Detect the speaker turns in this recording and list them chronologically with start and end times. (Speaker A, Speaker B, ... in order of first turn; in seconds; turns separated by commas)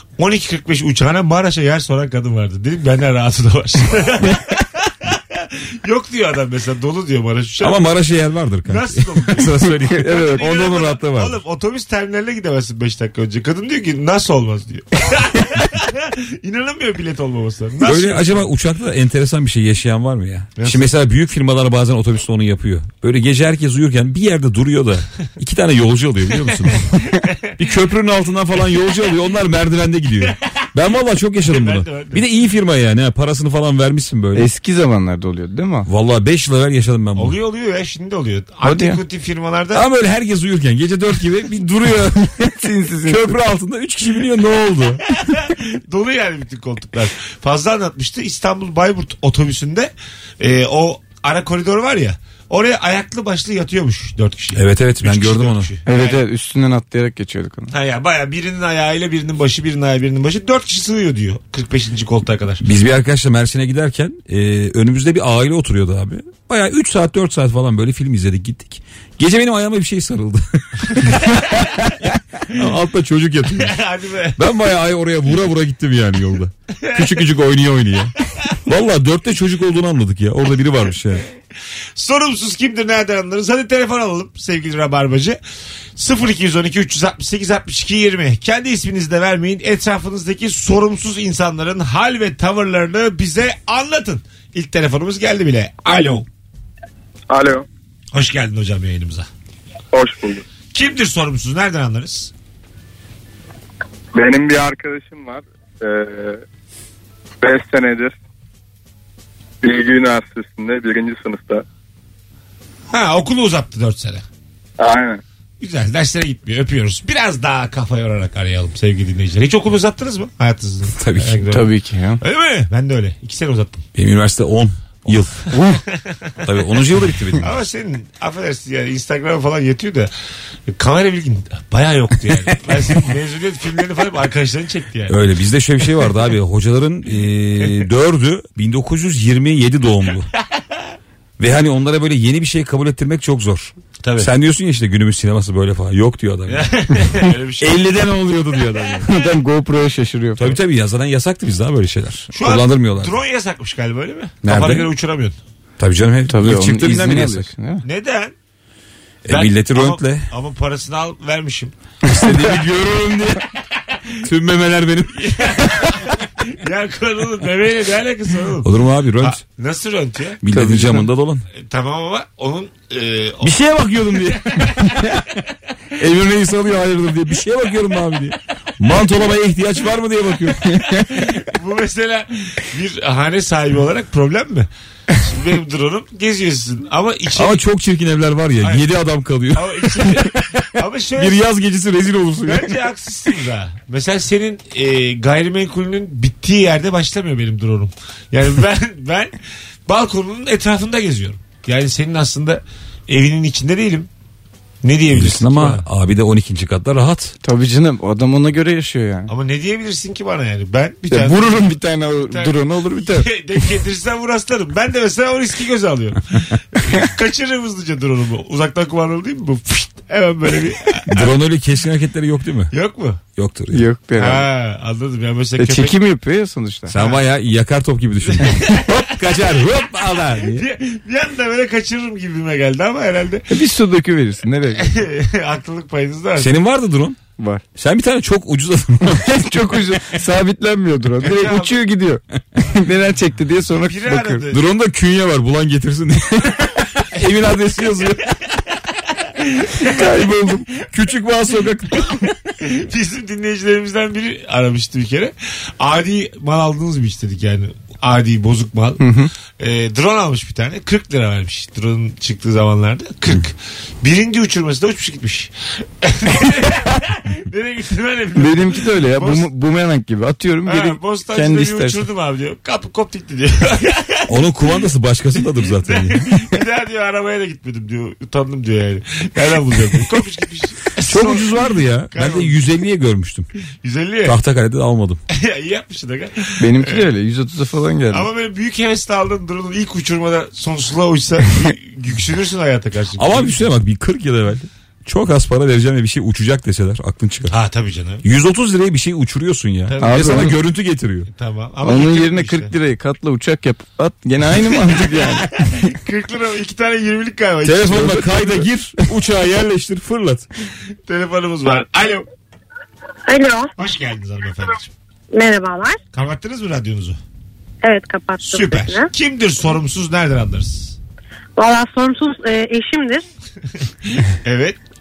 Speaker A: 0.2-7.8, Speaker B: 7.6-11.4, Speaker A: 8.6-18.5, Speaker C: 9.9-10.4, Speaker B: 17.8-27.1, Speaker A: 20.6-20.9, Speaker B: 27.6-34.5, Speaker A: 31.4-32.2, Speaker C: 34.3-35.9, Speaker B: 35.9-37.4, Speaker A: 37.1-39.8, Speaker C: 38.6-39.0, Speaker B: 39.7-45.1, Speaker C: 42.6-43.4, Speaker A: 45.1-56.2, Speaker B: 54.5-55.7, Speaker C: 55.9-57.7, Speaker A: 57.7-62.6, Speaker B: 62.6-73.8, Speaker A: 71.0-71.9, Speaker A: 73.5-74.4, Speaker B: 74.3-81.2, Speaker A: 76.8-77.2, Speaker A: 82.0-85.4, Speaker A: 86.0-96.2, Speaker D: 97.3-97.6, Speaker A: 98.1-99.3, Speaker D: 99.9-100.4, Speaker A: 100.7-102.3, Speaker D: 104.1-106.4, Speaker D: 107.4-108.1, Speaker D: 109.6-111.6, Speaker A: 112.9-114.2, Speaker D: 114.8-115.2, Speaker A: 115.6-123.8, Speaker B: 120.9-121.5, Speaker C: 121.5-122.2, Speaker B: 123.9-125.5, Speaker C: 125.5-125.8, Speaker A: 125.9-126.4, Speaker B: 126.4-127.6, Speaker A: 127.3-130.1, Speaker A: 130.7-135.2, Speaker B: 135.1-140.3, Speaker B: 141.4-147.0, Speaker A: 144.0-144.3, Speaker A: 146.5-148.0, Speaker B: 147.6-149.1, Speaker C: 149.0-150.6, Speaker B: 150.4-153.1, Speaker A: 152.3-155.4, Speaker B: 154.4-154.9, Speaker B: 155.8-157.5, Speaker C: 156.3-157.8, Speaker A: 157.8-158.3, Speaker B: 159.2-160.3, Speaker A: 159.3-161.7, Speaker B: 162.0-163.5, Speaker C: 162.1-162.4, Speaker B: 164.2-166.1, Speaker A: 165.1-170.4, Speaker B: 168.6-169.4, Speaker B: 170.4-171.4, Speaker C: 170.5-171.1, Speaker A: 171.5-175.2, Speaker B: 173.4-175.2, Speaker B: 175.9-181.2, Speaker A: 181.2-187.6, Speaker B: 187.3-190.4, Speaker A: 188.6-188.8, Speaker A: 189.5-191.4, Speaker B: 191.2-192.9, Speaker A: 192.4-199.3, Speaker A: 199.9-204.1, Speaker A: 204.8-205.8, Speaker B: 205.1-207.3, Speaker C: 207.4-209.3, Speaker A: 209.3-211.7, Speaker C: 211.1-213.3, Speaker A: 212.3-221.4, Speaker B: 221.1-222.7, Speaker A: 222.7-223.2, Speaker B: 223.4-223.8, Speaker C: 223.7-224.5, Speaker A: 224.2-226.0, Speaker C: 225.6-226.9, Speaker B: 226.9-230.7, Speaker A: 226.9-227.2, Speaker A: 228.3-229.6, Speaker A: 230.2-233.5, Speaker C: 233.5-234.9, Speaker A: 234.8-236.5, Speaker B: 236.4-237.2, Speaker C: 237.4-237.6, Speaker B: 237.8-239.3, Speaker C: 239.2-244.4, Speaker A: 241.2-241.8, Speaker A: 243.8-244.6, Speaker B: 244.5-248.3, Speaker A: 249.1-250.0, Speaker C: 249.8-250.7, Speaker B: 250.7-252.3, Speaker A: 252.6-259.0, Speaker C: 259.0-259.3, Speaker A: 259.6-269.5, Speaker C: 268.4-272.1, Speaker A: 270.6-274.5, Speaker B: 274.3-276.5, Speaker A: 275.6-282.5, Speaker B: 281.0-283.5, Speaker A: 283.8-284.4, Speaker B: 284.2-285.2, Speaker A: 285.3-287.1, Speaker C: 286.6-288.3, Speaker A: 288.1-293.6, Speaker B: 293.2-297.5, Speaker A: 297.5-298.2, Speaker B: 298.2-301.3, Speaker A: 299.9-300.6, Speaker C: 300.0-300.6, Speaker A: 301.3-302.7, Speaker C: 301.8-305.6, Speaker A: 305.1-308.3, Speaker B: 307.6-310.5, Speaker C: 307.9-308.6, Speaker A: 311.1-312.2, Speaker E: 313.3-313.7, Speaker A: 313.8-314.9, Speaker E: 315.3-316.0, Speaker A: 316.1-317.2, Speaker E: 317.8-319.1, Speaker A: 318.4-321.0, Speaker E: 321.6-323.2, Speaker A: 324.1-324.8